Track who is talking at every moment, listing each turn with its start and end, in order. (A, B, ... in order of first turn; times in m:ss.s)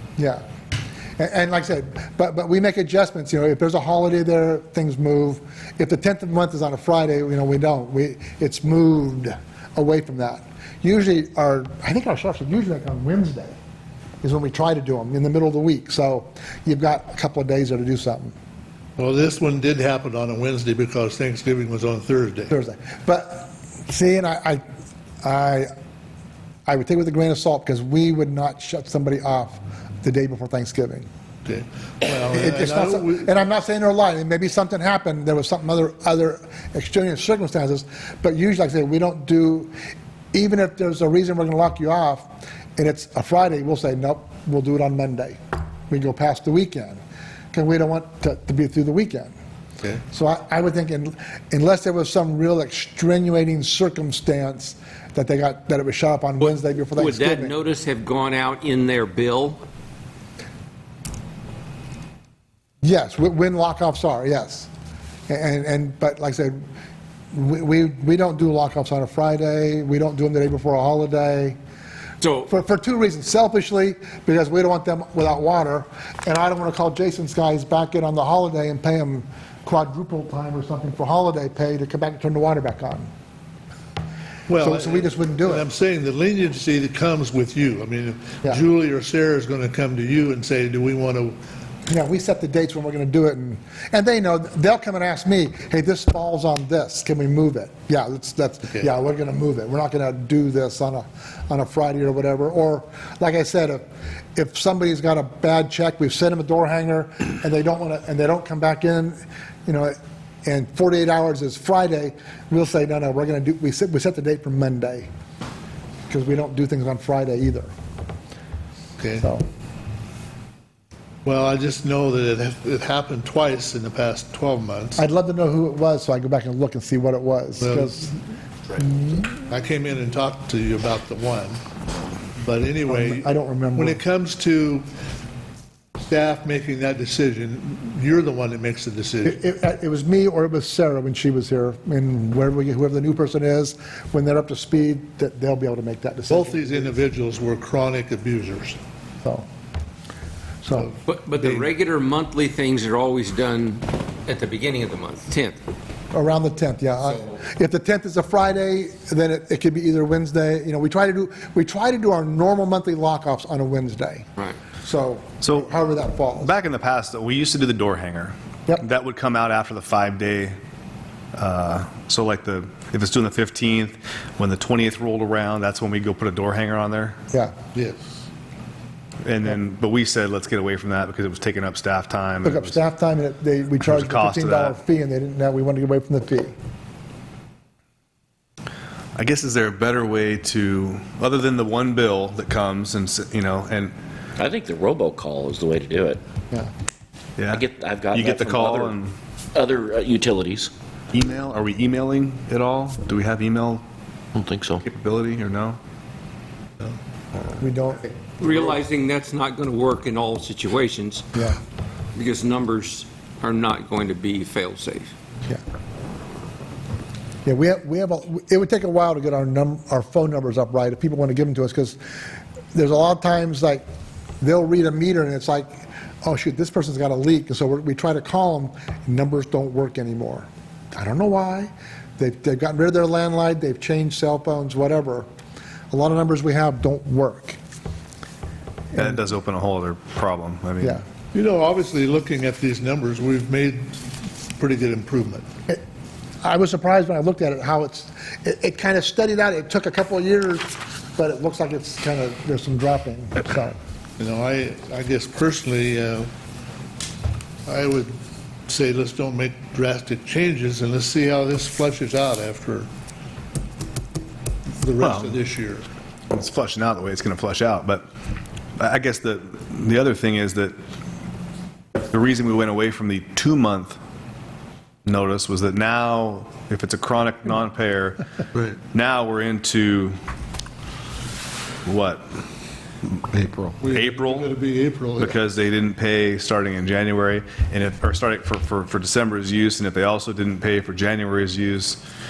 0:00.2-0:00.4 A
0:01.2-0:13.6 A
0:14.2-0:18.3 A
0:19.0-0:22.5 B
0:22.5-0:24.6 A
0:25.2-0:25.7 A
0:26.7-0:31.1 A
0:31.4-0:33.3 B
0:32.3-0:39.7 A
0:40.3-0:47.0 A
0:47.5-0:49.3 A
0:50.1-0:57.5 A
0:56.4-0:59.6 C
1:02.8-1:04.7 A
1:05.3-1:06.6 A
1:07.3-1:11.6 A
1:12.2-1:12.5 C
1:12.5-1:23.1 A
1:24.5-1:31.4 B
1:24.6-1:25.7 A
1:31.9-1:43.8 A
1:44.4-1:55.1 A
1:56.1-1:57.7 A
1:59.0-1:59.2 B
1:59.2-1:59.4 A
2:01.2-2:05.0 B
2:05.0-2:08.2 A
2:07.6-2:08.1 B
2:08.7-2:09.3 A
2:09.4-2:11.6 B
2:12.4-2:14.8 B
2:12.9-2:14.0 A
2:16.1-2:19.4 B
2:19.2-2:26.9 A
2:26.3-2:28.8 B
2:30.6-2:30.9 A
2:30.8-2:31.7 B
2:31.0-2:35.6 C
2:36.1-2:44.3 A
2:44.8-2:46.5 A
2:45.4-2:45.7 D
2:46.4-2:50.6 D
2:51.4-2:57.2 D
2:57.7-2:58.2 B
2:59.2-3:02.8 D
3:02.4-3:06.5 A
3:03.8-3:04.8 D
3:09.2-3:13.9 D
3:14.4-3:16.2 E
3:17.4-3:19.2 D
3:17.5-3:18.9 E
3:19.5-3:20.7 E
3:21.1-3:23.8 D
3:24.4-3:24.8 E
3:24.8-3:25.8 D
3:27.6-3:28.1 A
3:28.4-3:31.3 C
3:32.2-3:35.1 C
3:37.4-3:42.0 A
3:42.7-3:43.8 A
3:44.4-3:55.3 A
3:55.9-3:57.6 A
3:59.0-4:01.0 D
4:01.3-4:03.9 B
4:04.6-4:05.5 B
4:06.4-4:13.8 A
4:14.2-4:16.3 B
4:17.7-4:18.1 B
4:18.7-4:22.9 B
4:24.8-4:25.9 B
4:25.0-4:25.4 D
4:26.3-4:28.1 D
4:28.8-4:30.8 D
4:32.1-4:34.0 D
4:35.1-4:38.2 D
4:38.8-4:40.2 D
4:41.9-4:42.3 D
4:43.8-4:45.4 B
4:43.9-4:44.5 D
4:45.2-4:52.0 D